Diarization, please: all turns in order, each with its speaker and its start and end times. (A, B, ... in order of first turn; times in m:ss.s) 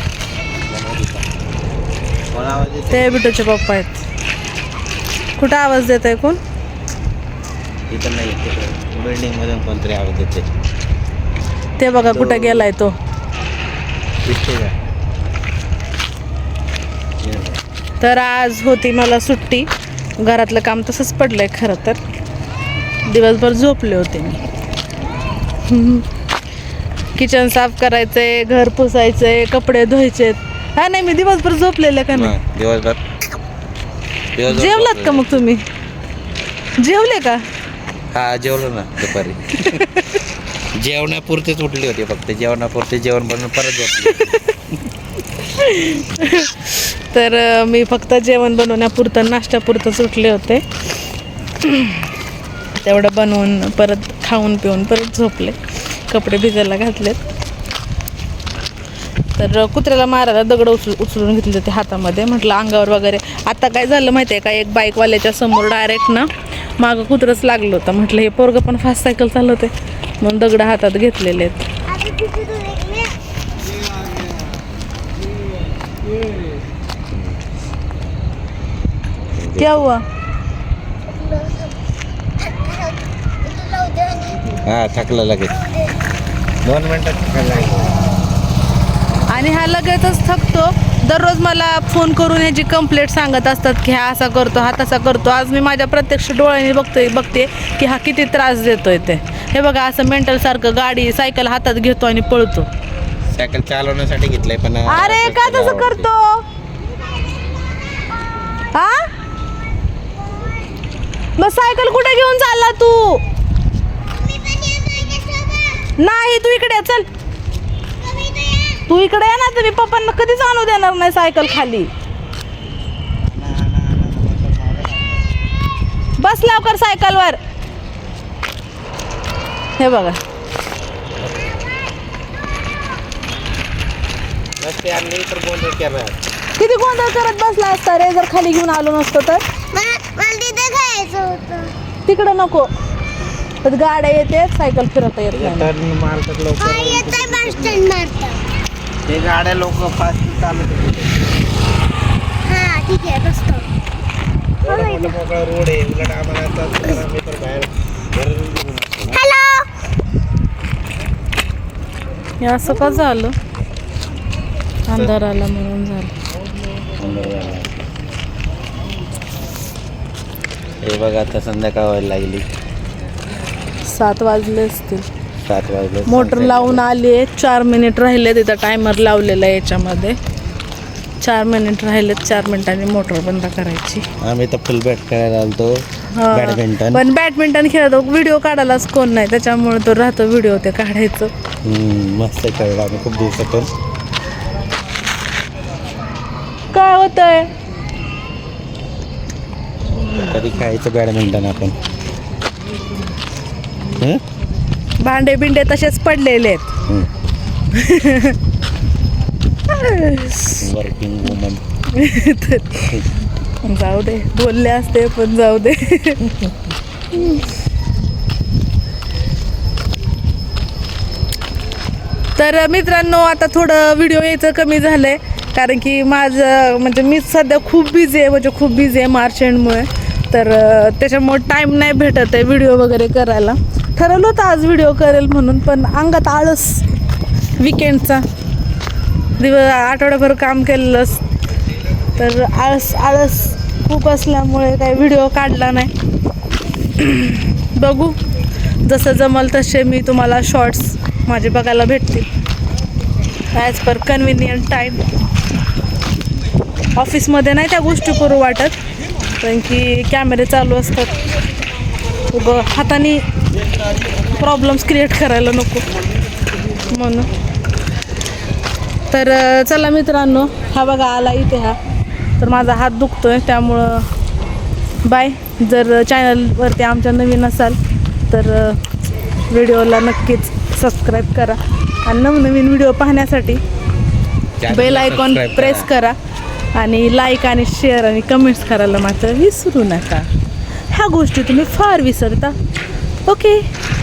0:00.5-0:01.3 A
0:02.3-0:03.2 A
0:02.9-0:04.0 B
0:05.4-0:06.4 B
0:07.9-0:10.5 A
0:11.8-0:13.0 B
0:12.0-0:12.7 A
0:14.2-0:14.8 A
0:17.2-0:17.6 A
0:18.0-0:22.0 B
0:23.0-0:24.4 B
0:25.6-0:26.1 B
0:27.2-0:32.4 B
0:32.1-0:33.0 A
0:34.4-0:35.4 A
0:34.5-0:35.7 B
0:36.8-0:37.5 B
0:38.1-0:39.9 A
0:39.5-0:40.2 B
0:40.8-0:44.4 A
0:44.1-0:44.7 B
0:45.3-0:52.1 B
0:52.7-0:57.2 B
0:59.4-1:11.7 B
1:11.9-1:13.2 C
1:19.3-1:19.9 A
1:19.6-1:20.0 B
1:21.1-1:21.7 C
1:22.5-1:23.0 C
1:23.5-1:24.4 C
1:24.5-1:25.8 A
1:26.6-1:28.1 A
1:29.3-1:42.7 B
1:43.3-1:46.1 A
1:44.9-1:46.4 B
1:48.7-1:49.1 B
1:51.4-1:53.2 B
1:54.2-1:55.8 C
1:56.0-1:57.1 B
1:58.1-1:58.7 C
1:58.9-2:01.9 B
2:03.3-2:05.2 A
2:06.2-2:07.4 B
2:09.8-2:10.2 B
2:14.6-2:16.2 A
2:16.6-2:19.4 B
2:19.7-2:21.7 C
2:22.1-2:22.7 B
2:23.6-2:25.7 B
2:25.3-2:27.9 A
2:26.6-2:28.4 C
2:29.1-2:31.1 A
2:32.4-2:33.7 C
2:34.6-2:39.3 A
2:34.6-2:35.1 C
2:39.2-2:39.7 C
2:42.4-2:43.4 B
2:44.9-2:46.1 B
2:47.0-2:47.8 A
2:50.8-2:52.5 A
2:53.8-2:55.1 B
2:55.5-2:56.9 A
2:56.1-3:00.2 B
3:01.2-3:04.0 B
3:04.2-3:07.0 A
3:06.1-3:11.3 B
3:11.6-3:13.7 A
3:16.7-3:17.5 B
3:20.1-3:21.8 A
3:23.9-3:24.2 A
3:25.0-3:26.7 B
3:27.7-3:28.4 B
3:29.7-3:30.6 B
3:30.6-3:31.6 A
3:31.9-3:33.0 B
3:33.6-3:36.6 B
3:37.1-3:37.5 B
3:42.4-3:56.9 B
3:57.6-3:58.2 B
3:59.4-4:01.2 B
4:02.2-4:05.9 B
4:06.9-4:08.2 B
4:08.8-4:12.3 B
4:13.5-4:15.0 B
4:17.0-4:18.7 B
4:19.4-4:21.2 B
4:22.3-4:23.2 B
4:24.2-4:25.9 B
4:26.8-4:27.3 B
4:29.1-4:31.8 B
4:32.4-4:34.1 B
4:35.0-4:37.8 B
4:38.3-4:38.8 B
4:39.5-4:43.6 B
4:44.6-4:45.9 A
4:44.7-4:46.2 B
4:46.7-4:50.3 B
4:50.9-4:52.6 B
4:53.3-4:53.7 B